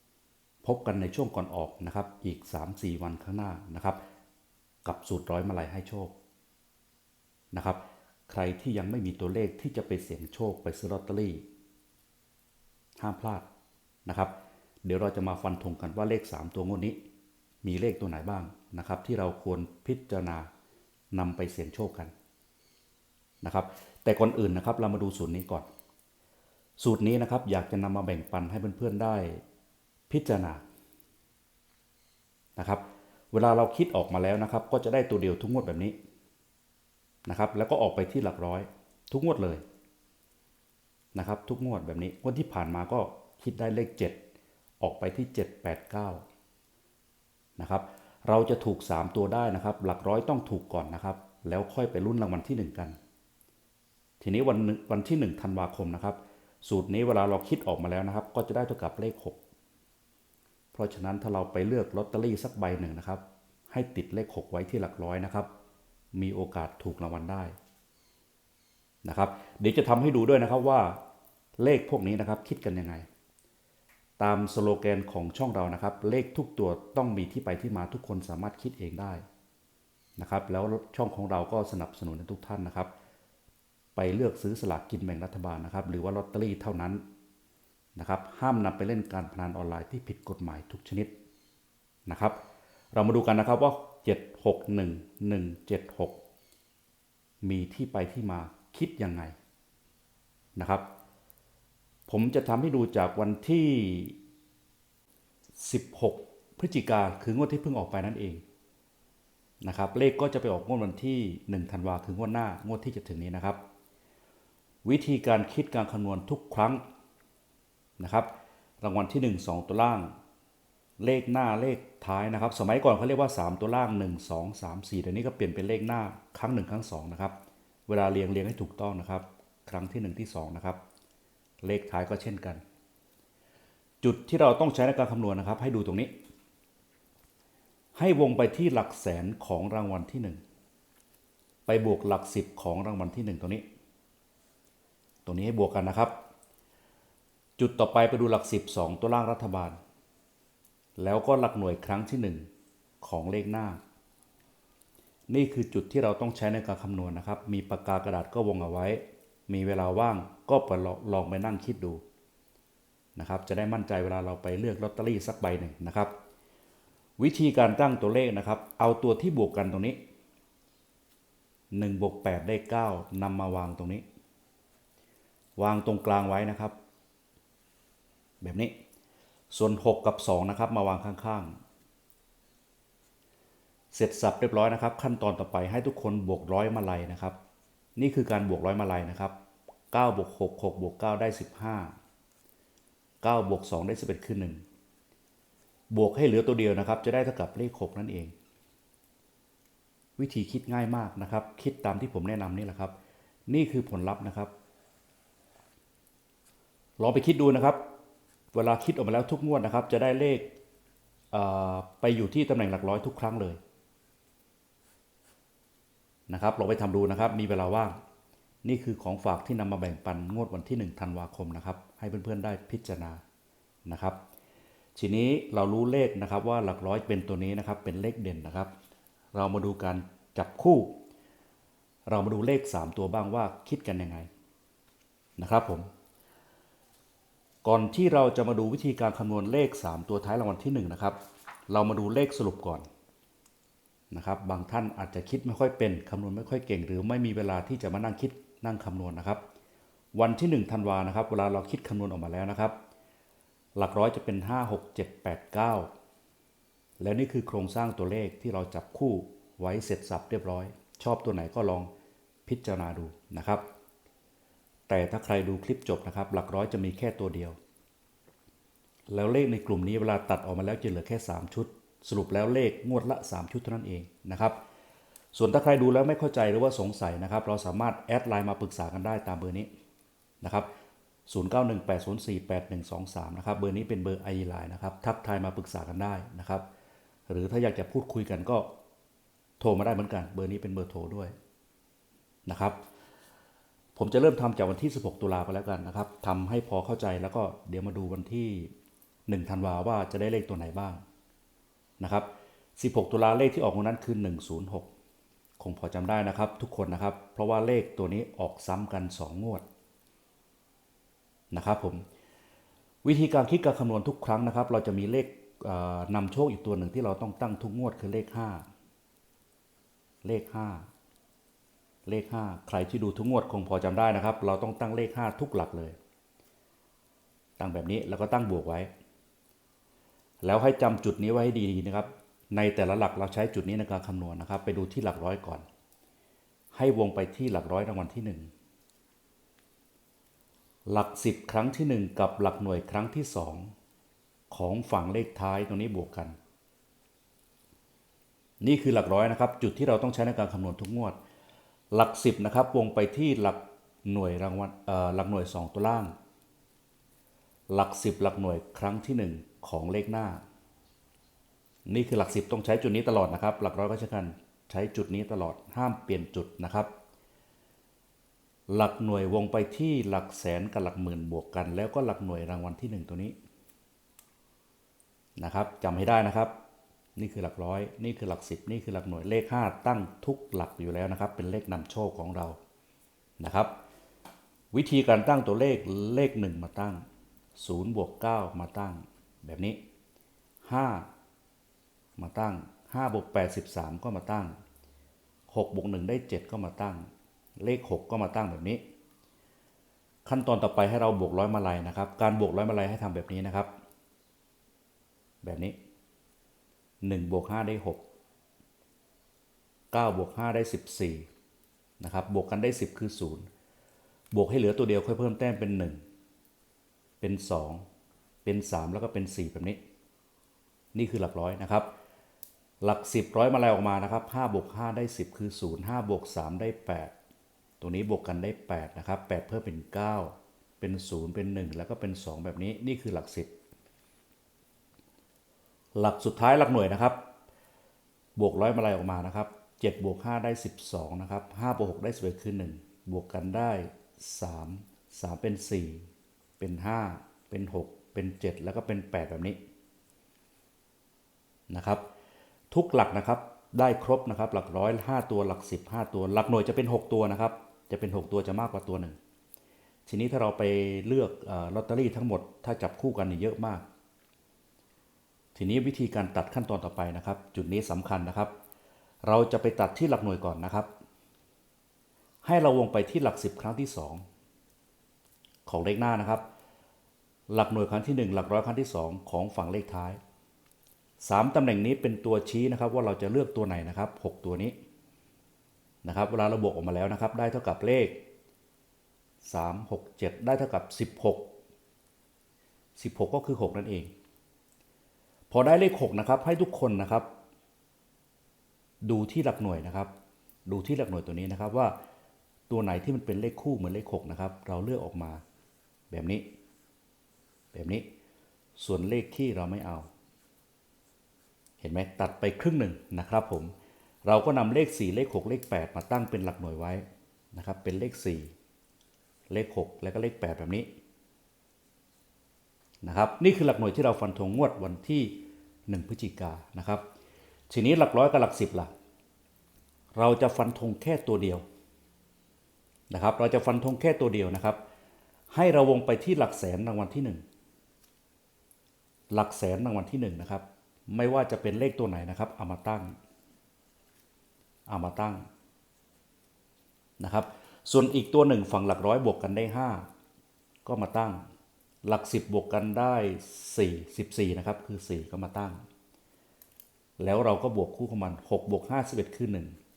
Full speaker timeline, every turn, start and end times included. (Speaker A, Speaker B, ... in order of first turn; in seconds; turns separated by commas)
Speaker A: 0.6-4.0, Speaker A: 4.8-6.1, Speaker A: 7.5-11.4, Speaker A: 13.0-13.5, Speaker A: 14.1-14.3, Speaker A: 14.8-17.0, Speaker A: 17.6-20.5, Speaker A: 21.1-22.1, Speaker A: 23.4-25.7, Speaker A: 26.8-29.4, Speaker A: 30.1-30.6, Speaker A: 32.6-36.0, Speaker A: 37.2-39.6, Speaker A: 41.1-44.2, Speaker A: 44.8-46.2, Speaker A: 47.6-53.0, Speaker A: 54.2-59.4, Speaker A: 60.7-65.5, Speaker A: 66.1-67.5, Speaker A: 69.0-71.0, Speaker A: 71.6-73.0, Speaker A: 74.2-79.2, Speaker A: 80.2-82.9, Speaker A: 84.0-87.0, Speaker A: 88.0-91.1, Speaker A: 92.0-92.4, Speaker A: 92.9-96.2, Speaker A: 97.4-99.3, Speaker A: 100.5-100.8, Speaker A: 102.1-104.2, Speaker A: 105.6-108.4, Speaker A: 109.6-113.6, Speaker A: 114.8-116.8, Speaker A: 118.0-118.3, Speaker A: 118.8-120.1, Speaker A: 121.0-127.3, Speaker A: 127.9-130.8, Speaker A: 131.6-132.6, Speaker A: 134.0-136.1, Speaker A: 137.9-140.4, Speaker A: 141.7-143.6, Speaker A: 145.2-146.1, Speaker A: 147.6-149.8, Speaker A: 151.0-152.4, Speaker A: 153.0-153.8, Speaker A: 155.3-162.0, Speaker A: 163.2-166.1, Speaker A: 167.2-170.0, Speaker A: 171.7-174.0, Speaker A: 175.6-176.7, Speaker A: 178.4-178.7, Speaker A: 179.5-181.5, Speaker A: 183.9-187.4, Speaker A: 187.9-189.3, Speaker A: 189.9-191.9, Speaker A: 193.2-194.6, Speaker A: 195.9-198.3, Speaker A: 200.2-202.9, Speaker A: 203.5-204.5, Speaker A: 207.0-207.8, Speaker A: 208.5-210.5, Speaker A: 211.3-213.6, Speaker A: 216.3-217.9, Speaker A: 218.6-223.2, Speaker A: 223.8-224.2, Speaker A: 224.9-228.7, Speaker A: 229.3-230.9, Speaker A: 232.1-234.3, Speaker A: 235.4-235.9, Speaker A: 237.6-241.2, Speaker A: 241.7-242.8, Speaker A: 244.1-249.4, Speaker A: 250.1-252.8, Speaker A: 253.8-255.9, Speaker A: 257.0-261.9, Speaker A: 262.4-263.6, Speaker A: 264.9-267.6, Speaker A: 269.1-274.6, Speaker A: 275.3-279.7, Speaker A: 280.4-280.7, Speaker A: 281.3-286.6, Speaker A: 287.3-288.7, Speaker A: 289.6-291.3, Speaker A: 292.4-292.8, Speaker A: 293.9-298.7, Speaker A: 299.3-301.0, Speaker A: 302.0-304.9, Speaker A: 305.6-309.6, Speaker A: 311.5-312.0, Speaker A: 313.0-318.6, Speaker A: 320.2-320.9, Speaker A: 322.1-325.9, Speaker A: 327.6-328.9, Speaker A: 330.4-335.6, Speaker A: 336.7-338.5, Speaker A: 340.9-343.7, Speaker A: 344.5-346.4, Speaker A: 348.6-351.2, Speaker A: 351.9-356.1, Speaker A: 357.7-360.4, Speaker A: 361.9-366.9, Speaker A: 368.7-373.3, Speaker A: 375.4-376.5, Speaker A: 377.1-382.6, Speaker A: 383.4-383.7, Speaker A: 384.7-387.0, Speaker A: 387.6-389.8, Speaker A: 390.6-391.1, Speaker A: 392.2-394.5, Speaker A: 395.5-397.1, Speaker A: 397.6-398.8, Speaker A: 400.2-403.7, Speaker A: 405.4-405.8, Speaker A: 407.0-408.0, Speaker A: 409.9-411.3, Speaker A: 412.0-413.5, Speaker A: 414.3-416.0, Speaker A: 417.2-417.8, Speaker A: 418.4-419.8, Speaker A: 420.9-421.9, Speaker A: 422.8-427.1, Speaker A: 427.8-433.5, Speaker A: 435.9-437.2, Speaker A: 438.4-446.1, Speaker A: 446.6-449.6, Speaker A: 451.7-452.0, Speaker A: 452.7-459.2, Speaker A: 460.1-463.8, Speaker A: 465.5-468.5, Speaker A: 469.2-470.9, Speaker A: 472.4-474.2, Speaker A: 475.6-476.4, Speaker A: 477.5-480.2, Speaker A: 481.2-484.8, Speaker A: 486.0-488.2, Speaker A: 489.4-491.5, Speaker A: 493.0-494.1, Speaker A: 495.5-497.3, Speaker A: 499.0-500.1, Speaker A: 500.6-501.9, Speaker A: 502.7-505.4, Speaker A: 506.1-506.4, Speaker A: 507.7-508.0, Speaker A: 508.8-510.1, Speaker A: 511.8-513.7, Speaker A: 514.2-518.5, Speaker A: 519.5-520.9, Speaker A: 523.0-527.0, Speaker A: 527.7-528.9, Speaker A: 530.1-531.6, Speaker A: 533.1-534.8, Speaker A: 535.5-537.4, Speaker A: 539.3-543.1, Speaker A: 544.9-545.5, Speaker A: 547.2-550.0, Speaker A: 550.8-551.4, Speaker A: 552.0-555.8, Speaker A: 557.2-559.7